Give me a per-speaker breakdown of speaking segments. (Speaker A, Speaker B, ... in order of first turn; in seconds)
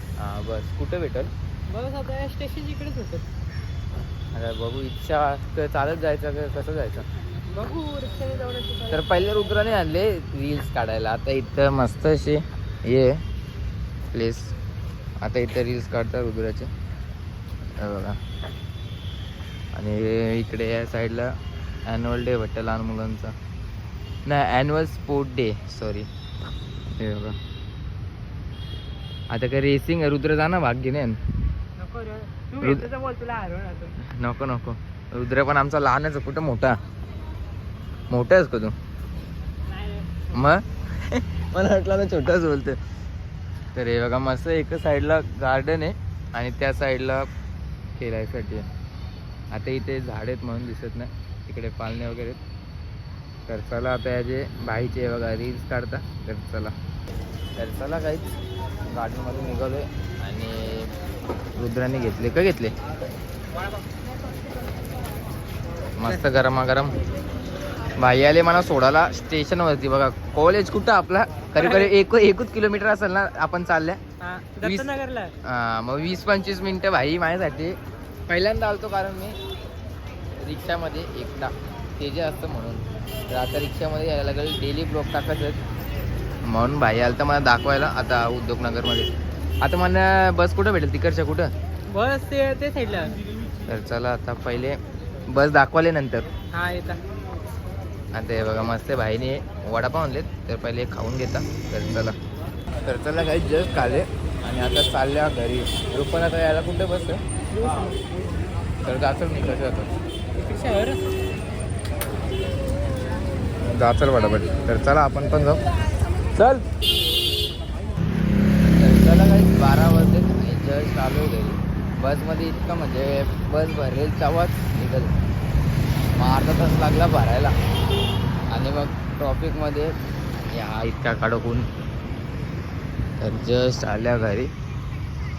Speaker A: 0.2-1.3, 4.3-7.0, 8.9-13.2, 14.1-14.5, 15.2-16.7, 17.8-18.2, 19.7-21.3, 21.9-23.3, 24.2-26.1, 26.9-27.4, 29.3-31.2, 32.6-32.9, 34.0-36.8, 38.1-38.7, 40.3-42.8, 43.7-47.3, 48.0-48.7, 49.5-52.4, 53.5-56.7, 57.6-58.3, 58.9-60.9, 61.6-62.7, 66.0-67.0, 68.0-74.0, 74.6-74.9, 75.4-77.8, 78.3-79.4, 80.4-85.6, 86.5-89.1, 89.6-91.5, 93.7-94.8, 95.3-96.3, 98.1-102.2, 102.8-107.2, 108.8-109.9, 113.6-115.6, 116.3-116.6, 118.7-125.1, 126.2-127.5, 128.5-129.9, 130.5-131.7, 133.2-134.5
Speaker B: 1.7-3.2, 7.5-9.1, 31.8-33.9, 39.7-40.2, 71.6-71.9, 74.2-75.3, 91.9-93.2, 96.5-97.0, 107.5-108.0, 110.3-111.0